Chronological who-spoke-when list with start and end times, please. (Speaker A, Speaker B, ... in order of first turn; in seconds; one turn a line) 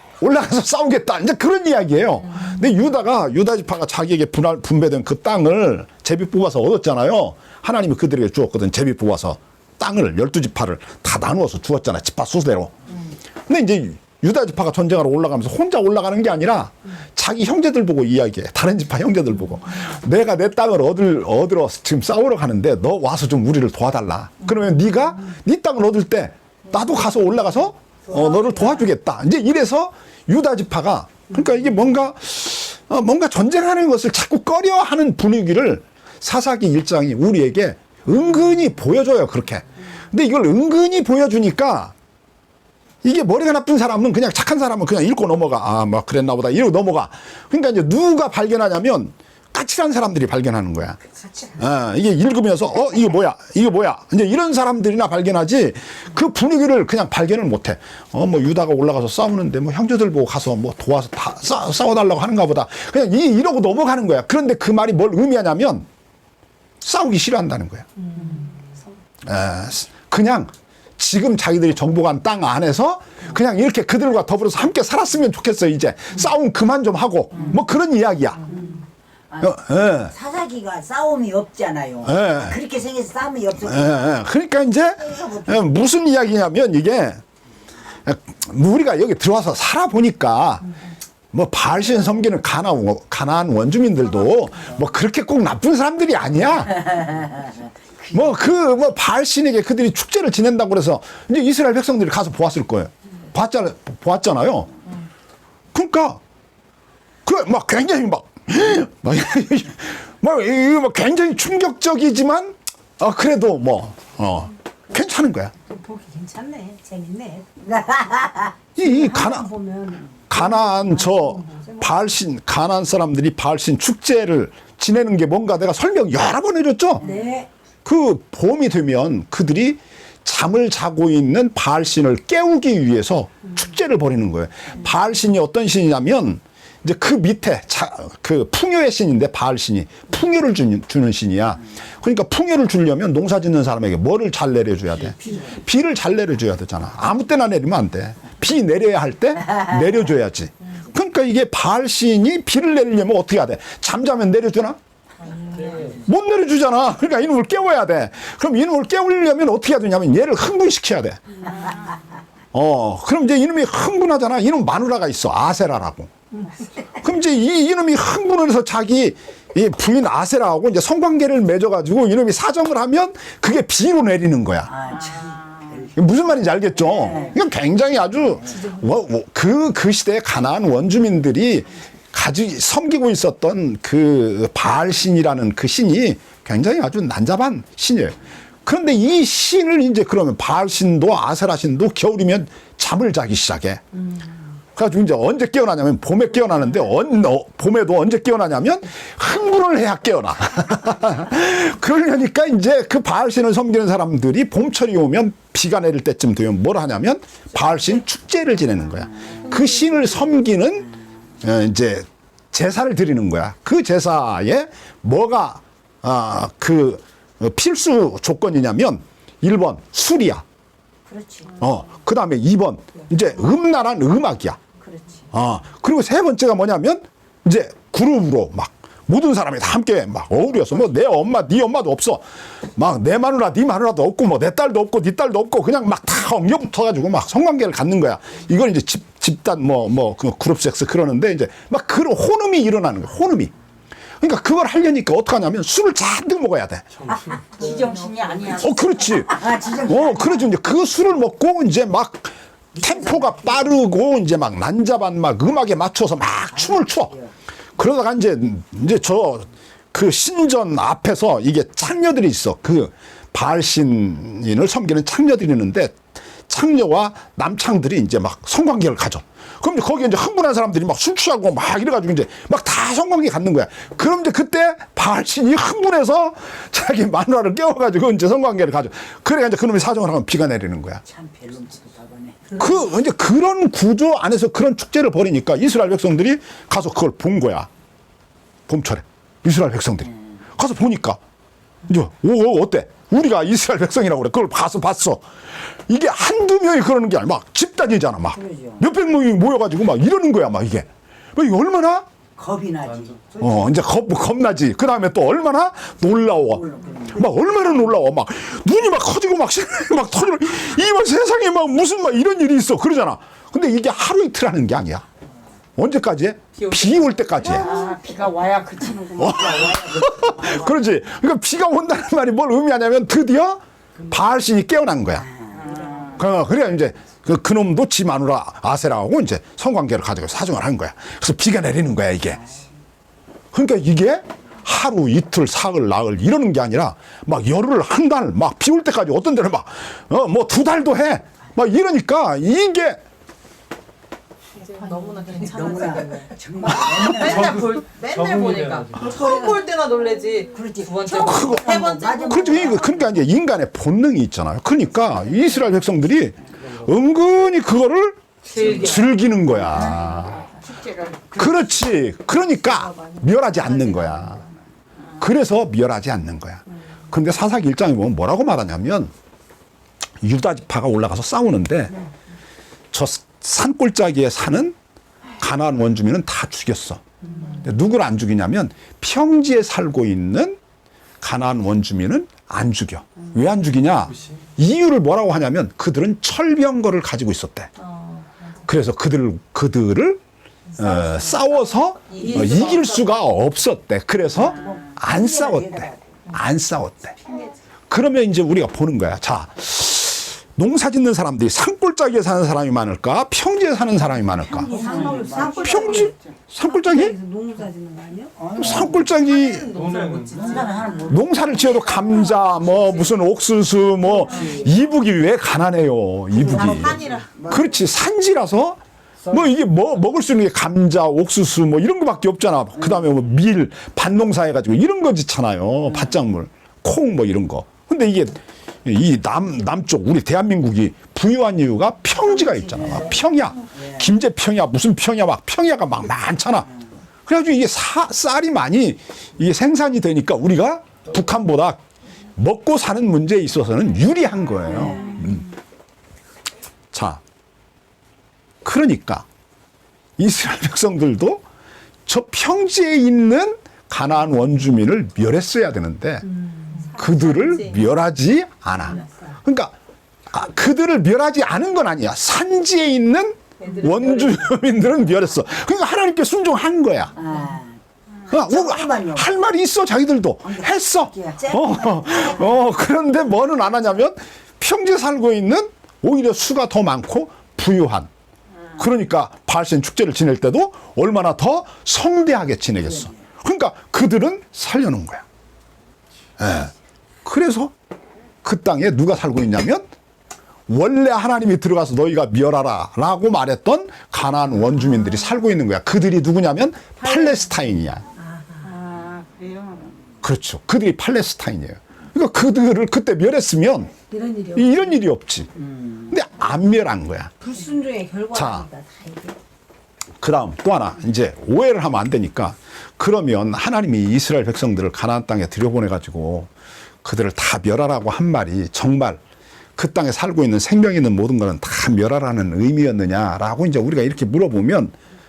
Speaker A: 0.2-12.8
Speaker A: 13.5-41.9
Speaker A: 43.0-51.0
Speaker A: 51.6-65.9
Speaker A: 66.8-67.9
Speaker B: 68.0-68.8
Speaker A: 69.2-78.5
Speaker C: 79.3-84.0
Speaker A: 79.4-80.1
Speaker A: 82.0-82.6
Speaker A: 83.6-87.2
Speaker C: 85.1-85.7
Speaker A: 88.0-90.7
Speaker A: 91.3-97.1
Speaker C: 96.9-98.1
Speaker A: 98.1-104.7
Speaker A: 105.7-106.2
Speaker A: 107.2-115.5
Speaker B: 115.7-117.5
Speaker C: 117.6-118.5
Speaker A: 118.8-119.5
Speaker B: 118.8-122.0
Speaker A: 120.3-127.0
Speaker C: 127.0-127.5
Speaker B: 127.0-127.5
Speaker A: 127.8-154.8
Speaker A: 155.8-161.2
Speaker A: 162.5-166.1
Speaker A: 167.0-174.7
Speaker C: 174.7-175.9
Speaker A: 175.9-193.8
Speaker C: 176.8-177.4
Speaker B: 178.5-179.0
Speaker A: 194.8-210.9
Speaker A: 211.4-220.4
Speaker C: 221.1-221.6
Speaker A: 221.6-224.6
Speaker C: 224.8-225.3
Speaker A: 225.3-243.5
Speaker A: 244.2-246.9
Speaker C: 247.1-250.5
Speaker D: 247.6-248.6
Speaker A: 248.6-257.1
Speaker C: 252.7-253.6
Speaker C: 256.5-257.3
Speaker A: 257.8-281.0
Speaker C: 281.0-282.7
Speaker A: 282.6-287.7
Speaker A: 288.7-291.2
Speaker A: 291.9-295.2
Speaker A: 295.9-302.1
Speaker C: 298.3-298.8
Speaker C: 302.4-303.6
Speaker A: 303.4-315.1
Speaker C: 306.3-307.4
Speaker A: 315.8-317.7
Speaker D: 316.6-317.2
Speaker C: 317.4-320.9
Speaker A: 319.2-325.3
Speaker C: 325.1-326.2
Speaker A: 326.1-332.4
Speaker C: 332.3-332.7
Speaker A: 333.5-343.0
Speaker D: 344.6-352.8
Speaker C: 345.3-347.7
Speaker C: 349.0-349.5
Speaker C: 350.5-353.1
Speaker A: 351.1-360.5
Speaker D: 358.4-359.1
Speaker C: 359.5-361.7
Speaker D: 360.9-361.1
Speaker A: 361.4-364.4
Speaker D: 362.8-363.1
Speaker A: 365.2-369.1
Speaker A: 370.2-372.0
Speaker A: 372.9-374.8
Speaker A: 375.4-380.6
Speaker A: 381.2-387.7
Speaker D: 387.8-388.5
Speaker A: 388.6-390.2
Speaker A: 390.8-397.2
Speaker D: 392.1-393.1
Speaker C: 394.3-396.0
Speaker A: 397.9-407.1
Speaker C: 404.3-406.2
Speaker B: 404.7-406.1
Speaker B: 406.6-408.4
Speaker C: 408.4-409.1
Speaker A: 408.6-409.7
Speaker D: 409.2-411.1
Speaker C: 410.3-413.0
Speaker A: 411.1-436.7
Speaker C: 416.3-417.9
Speaker D: 416.5-417.3
Speaker C: 425.9-426.2
Speaker C: 432.1-434.1
Speaker A: 437.2-441.8
Speaker A: 442.4-445.5
Speaker C: 444.6-445.4
Speaker A: 446.9-447.2
Speaker A: 448.6-449.2
Speaker A: 450.2-451.4
Speaker A: 452.1-456.3
Speaker B: 456.2-457.0
Speaker D: 456.7-457.9
Speaker A: 456.9-459.7
Speaker B: 459.0-459.3
Speaker A: 460.3-467.1
Speaker D: 463.6-464.4
Speaker C: 467.1-469.4
Speaker A: 468.3-478.1
Speaker C: 470.4-472.6
Speaker A: 478.8-485.2
Speaker A: 486.4-486.7
Speaker A: 487.2-487.7
Speaker A: 488.4-489.9
Speaker A: 490.7-498.0
Speaker B: 497.0-497.4
Speaker B: 498.1-498.8
Speaker A: 500.2-504.0
Speaker B: 504.1-505.0
Speaker A: 504.5-505.5
Speaker C: 505.6-506.1
Speaker A: 506.1-507.3
Speaker B: 507.4-509.4
Speaker A: 508.3-508.6
Speaker A: 510.2-516.5
Speaker A: 517.0-519.2
Speaker A: 519.8-525.0